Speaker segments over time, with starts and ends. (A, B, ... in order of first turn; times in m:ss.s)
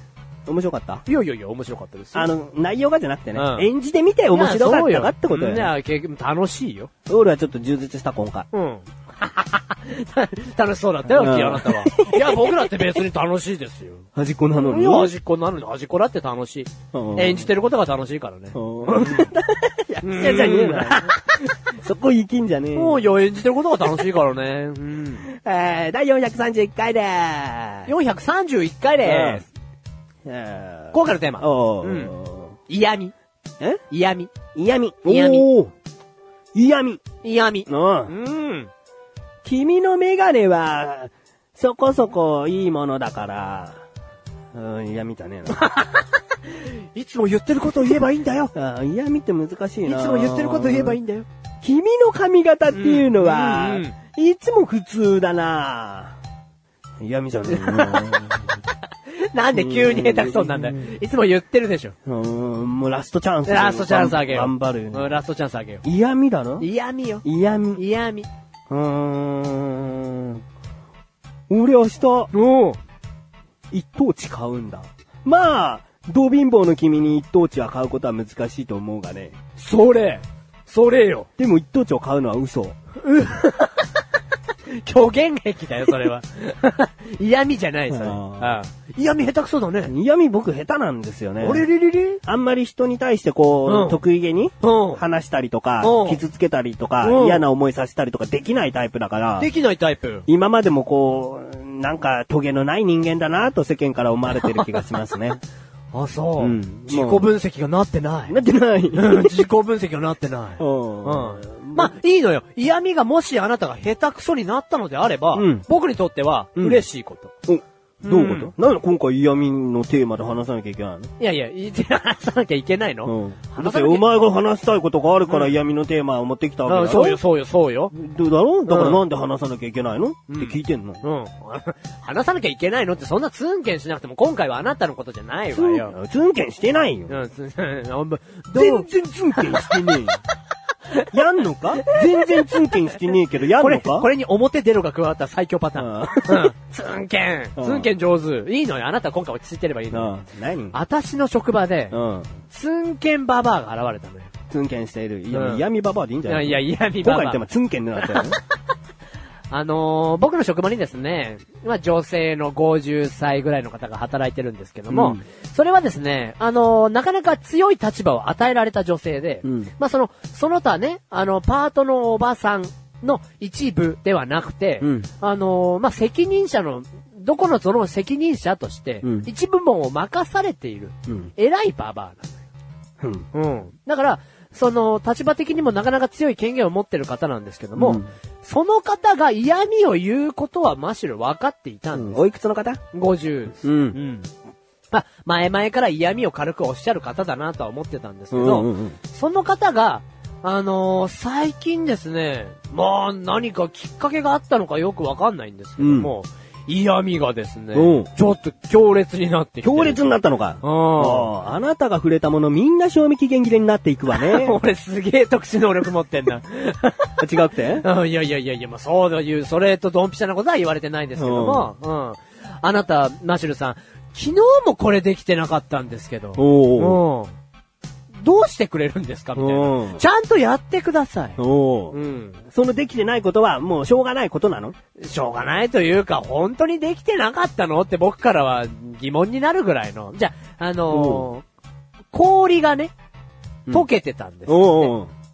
0:00.5-0:01.0 A
0:01.1-0:02.3 B
0:02.1-0:05.7 A
0:03.4-0:03.7 B
0:04.3-0:06.9 B
0:07.1-0:08.5 A
0:08.5-0:14.1 B
0:11.1-0:12.8 A
0:14.2-0:15.1 A
0:14.6-0:19.3 B
0:16.9-0:17.5 A
0:18.5-0:21.2 A
0:20.0-0:21.4 B
0:21.7-0:23.1 A
0:22.8-0:25.2 B
0:25.2-0:27.9 A
0:27.9-0:29.5 B
0:29.0-0:29.4 A
0:30.2-0:32.5 A
0:30.9-0:32.1 B
0:32.7-0:33.1 B
0:33.9-0:34.3 B
0:34.5-0:35.7 A
0:35.1-0:35.5 B
0:36.6-0:37.0 A
0:37.2-0:38.7 B
0:37.7-0:38.1 A
0:39.4-0:43.8 A
0:44.5-0:45.7 A
0:45.6-0:48.5 B
0:48.5-0:51.0 A
0:49.8-0:51.3 B
0:51.6-0:56.2 A
0:52.7-0:53.9 B
0:57.0-0:58.5 A
0:57.5-0:58.6 B
0:59.2-1:02.0 B
0:59.5-1:00.9 A
1:02.1-1:05.2 A
1:03.5-1:05.8 B
1:05.8-1:06.7 A
1:06.6-1:07.2 B
1:07.2-1:07.8 A
1:07.8-1:08.3 B
1:08.7-1:10.4 A
1:11.5-1:12.3 A
1:12.3-1:12.8 B
1:13.7-1:19.3 A
1:19.6-1:21.3 B
1:21.4-1:22.8 A
1:23.0-1:24.0 B
1:24.7-1:29.9 B
1:27.9-1:28.6 A
1:29.9-1:31.7 A
1:31.4-1:32.2 B
1:32.2-1:39.5 A
1:33.7-1:34.0 B
1:34.6-1:35.0 B
1:35.8-1:36.2 B
1:37.0-1:37.4 B
1:39.4-1:40.3 B
1:40.3-1:45.4 A
1:44.4-1:44.8 B
1:45.9-1:48.4 B
1:46.4-1:47.4 A
1:48.3-1:49.5 A
1:48.9-1:57.3 B
1:50.6-1:51.9 A
1:55.4-1:55.7 A
1:56.6-1:56.8 A
1:57.5-2:01.1 A
1:58.0-1:58.5 B
2:01.2-2:04.0 B
2:03.0-2:07.2 A
2:05.3-2:05.5 B
2:06.7-2:07.9 B
2:07.9-2:11.0 A
2:08.7-2:09.0 B
2:10.3-2:15.9 B
2:15.5-2:17.2 A
2:17.1-2:20.0 B
2:18.6-2:20.2 A
2:21.1-2:24.1 A
2:21.9-2:22.7 B
2:23.5-2:30.1 B
2:25.8-2:26.5 A
2:27.6-2:27.9 A
2:29.9-2:30.8 A
2:30.7-2:34.3 B
2:31.9-2:32.3 A
2:34.5-2:38.4 A
2:35.3-2:35.6 B
2:36.3-2:37.4 B
2:38.0-2:38.4 B
2:39.5-3:02.4 B
2:44.9-2:45.2 A
2:49.4-2:49.7 A
2:54.8-2:55.1 A
2:59.0-2:59.3 A
3:03.0-3:03.3 A
3:03.3-3:12.2 B
3:07.8-3:08.1 A
3:11.9-3:12.8 A
3:12.9-3:14.3 B
3:13.6-3:14.0 A
3:14.9-3:30.1 B
3:18.3-3:19.0 A
3:25.8-3:26.1 A
3:27.7-3:28.1 A
3:29.6-3:34.6 A
3:30.6-3:31.3 B
3:34.1-3:37.2 B
3:37.2-3:37.9 A
3:37.8-3:47.3 B
3:41.2-3:41.7 A
3:46.4-3:47.0 A
3:48.2-3:51.4 B
3:49.4-3:50.0 A
3:51.4-3:52.0 A
3:51.9-3:52.4 B
3:52.5-3:54.8 A
3:55.0-4:01.4 B
4:00.9-4:01.3 A
4:02.1-4:02.9 B
4:03.7-4:04.9 B
4:04.5-4:05.1 A